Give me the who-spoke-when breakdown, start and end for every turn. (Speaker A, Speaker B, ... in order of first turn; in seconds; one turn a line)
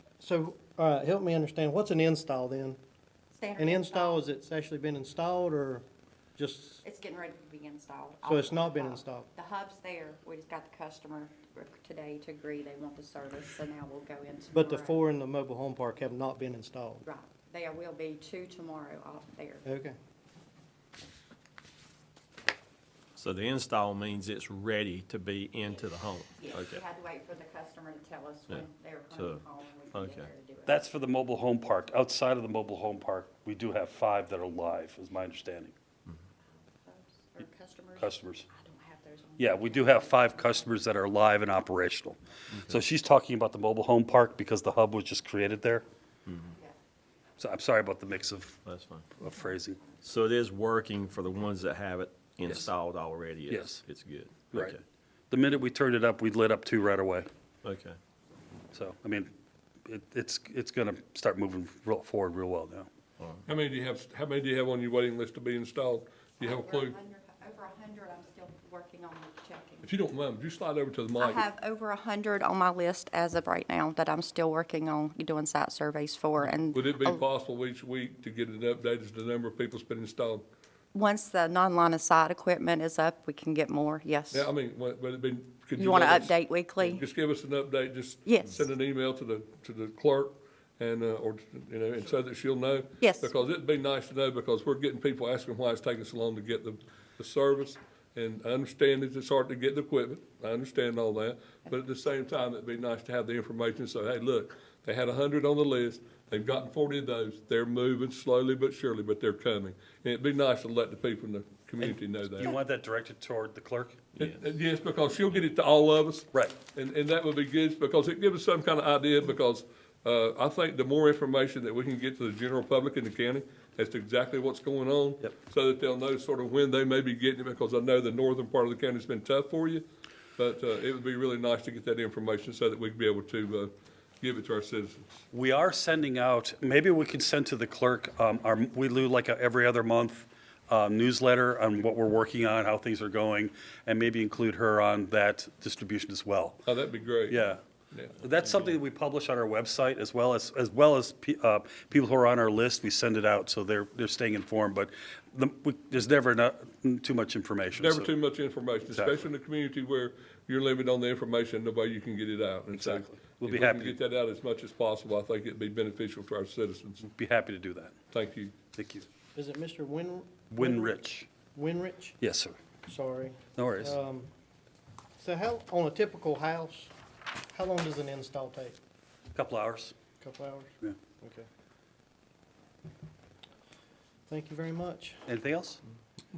Speaker A: 0.2-2.8
Speaker B: 3.4-4.2
Speaker A: 3.6-5.8
Speaker A: 6.4-6.8
Speaker B: 6.8-15.0
Speaker A: 8.2-9.3
Speaker A: 14.5-17.0
Speaker B: 17.0-19.7
Speaker A: 19.7-19.9
Speaker C: 23.2-26.7
Speaker B: 26.3-30.8
Speaker D: 30.6-35.8
Speaker B: 36.5-40.8
Speaker D: 38.0-38.5
Speaker D: 39.4-45.9
Speaker D: 47.4-48.6
Speaker C: 48.7-49.0
Speaker D: 49.2-49.8
Speaker C: 50.1-54.8
Speaker D: 53.5-53.8
Speaker D: 54.5-54.8
Speaker D: 55.3-57.3
Speaker C: 57.6-58.0
Speaker D: 58.7-59.3
Speaker D: 59.8-62.9
Speaker E: 63.5-67.0
Speaker B: 66.4-69.9
Speaker E: 69.8-71.4
Speaker B: 71.2-77.2
Speaker E: 76.7-80.4
Speaker B: 80.9-84.5
Speaker E: 84.3-112.5
Speaker B: 85.8-87.0
Speaker B: 88.2-88.7
Speaker B: 93.0-93.3
Speaker D: 111.8-114.1
Speaker E: 114.2-129.9
Speaker D: 116.3-116.6
Speaker E: 130.4-135.2
Speaker D: 135.3-146.6
Speaker E: 146.7-148.8
Speaker D: 147.3-147.6
Speaker D: 148.2-158.2
Speaker E: 157.8-167.0
Speaker D: 158.8-159.3
Speaker D: 162.7-164.0
Speaker D: 167.0-168.0
Speaker E: 168.1-168.6
Speaker D: 168.7-169.1
Speaker A: 169.3-171.0
Speaker D: 170.5-171.3
Speaker A: 171.6-172.2
Speaker D: 172.2-172.6
Speaker A: 172.9-174.3
Speaker D: 173.6-174.0
Speaker A: 175.2-176.9
Speaker A: 177.5-178.8
Speaker D: 179.3-179.9
Speaker A: 180.2-180.7
Speaker A: 184.3-185.2
Speaker D: 185.3-185.8